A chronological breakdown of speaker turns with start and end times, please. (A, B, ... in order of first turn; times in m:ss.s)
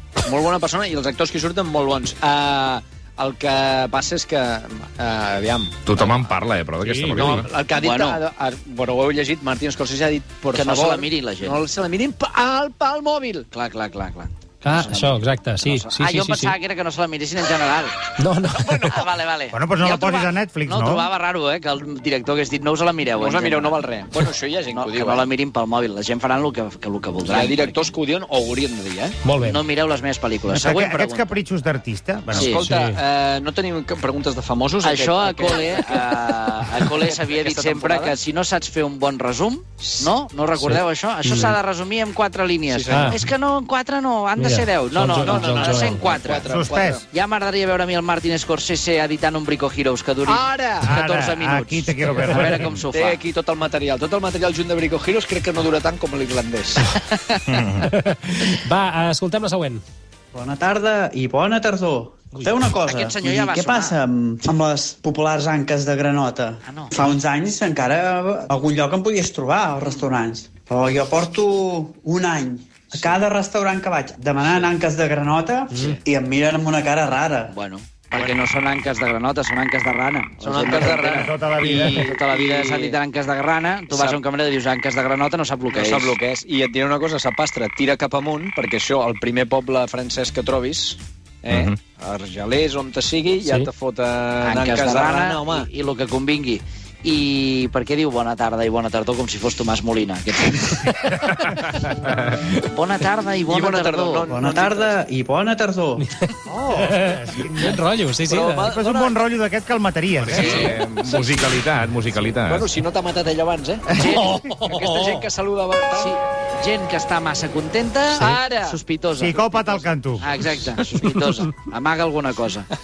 0:00.2-0:06.3 A
0:05.8-0:07.5 B
0:06.8-0:07.4 C
0:07.1-0:13.4 A
0:07.7-0:08.2 D
0:10.5-0:11.6 D
0:13.5-0:18.0 D
0:14.6-0:16.6 C
0:18.2-0:18.6 C
0:18.5-0:19.1 A
0:18.9-0:23.8 D
0:19.5-0:21.1 E
0:23.2-0:25.3 A
0:24.7-0:27.9 D
0:27.2-0:29.2 A
0:29.2-0:29.6 C
0:29.4-0:31.4 D
0:30.5-0:32.6 E
0:32.3-0:38.2 A
0:32.3-0:32.6 D
0:32.6-0:33.0 C
0:34.8-0:46.5 D
0:39.8-0:40.1 A
0:40.6-0:41.6 C
0:42.7-0:43.2 A
0:42.9-0:43.2 C
0:44.4-0:46.0 C
0:45.2-0:47.0 A
0:46.4-0:47.0 E
0:47.1-0:53.2 D
0:50.2-0:50.9 A
0:50.8-0:52.7 E
0:52.8-0:56.9 A
0:57.1-0:57.4 D
0:57.6-0:59.8 C
1:00.3-1:17.5 F
1:02.8-1:04.0 D
1:06.6-1:07.1 D
1:15.7-1:16.0 C
1:17.5-1:21.3 D
1:18.1-1:18.4 A
1:20.4-1:23.0 A
1:21.1-1:22.1 E
1:22.0-1:26.2 D
1:23.9-1:24.2 A
1:25.7-1:35.7 A
1:31.5-1:31.8 B
1:33.4-1:33.7 C
1:34.4-1:40.8 D
1:42.7-1:44.4 D
1:43.5-1:45.0 A
1:44.3-1:46.0 F
1:46.0-1:48.7 C
1:46.5-1:47.8 E
1:48.2-1:49.2 A
1:48.6-1:50.6 E
1:50.2-1:52.7 B
1:50.3-1:51.2 A
1:51.0-1:51.4 C
1:52.4-1:56.1 A
1:54.0-1:54.4 D
1:54.6-1:55.0 C
1:56.0-1:59.4 D
1:58.1-1:58.4 C
1:59.2-2:00.3 E
1:59.4-1:59.9 A
2:00.1-2:02.7 D